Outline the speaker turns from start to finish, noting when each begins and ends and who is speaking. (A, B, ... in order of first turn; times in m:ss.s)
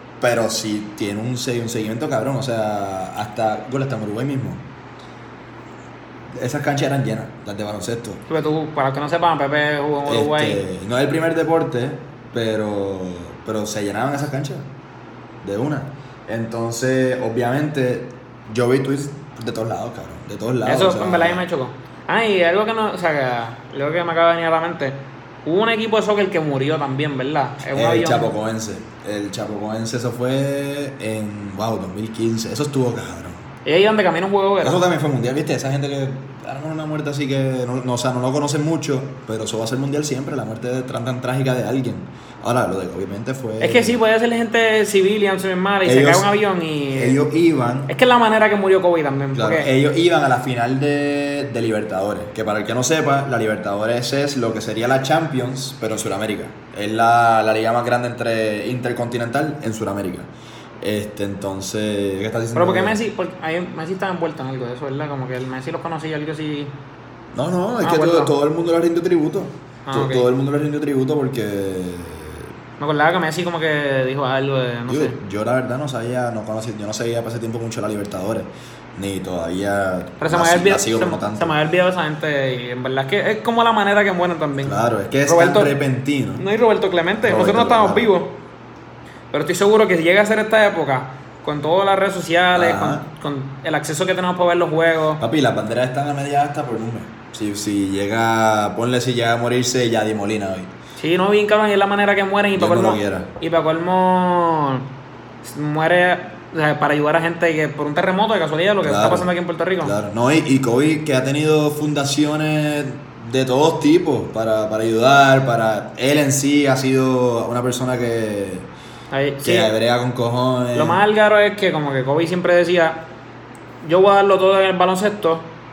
0:00.2-0:04.6 A
0:06.3-0:08.2 A
0:08.3-0:10.6 B
0:10.0-0:14.6 A
0:15.4-0:21.4 A
0:20.6-0:28.3 B
0:27.7-0:33.4 A
0:33.6-0:34.8 B
0:34.6-0:44.0 A
0:43.6-0:47.2 B
0:45.8-0:46.3 A
0:46.9-0:47.9 A
0:47.9-0:49.7 B
0:49.3-1:00.3 A
1:00.8-1:03.0 A
1:02.5-1:06.7 B
1:07.3-1:12.5 A
1:07.8-1:08.3 B
1:09.8-1:10.3 B
1:12.8-1:15.2 B
1:14.9-1:21.6 A
1:20.2-1:25.8 B
1:24.6-1:26.4 A
1:26.4-1:28.4 B
1:27.2-1:28.1 A
1:29.3-1:35.2 B
1:32.5-1:33.0 A
1:35.2-1:40.7 A
1:41.0-1:44.9 B
1:42.5-1:43.3 A
1:45.4-1:49.9 B
1:48.8-1:49.3 A
1:49.8-1:58.7 A
1:59.1-1:59.7 B
1:59.4-2:01.0 A
2:00.7-2:03.0 B
2:03.8-2:05.5 B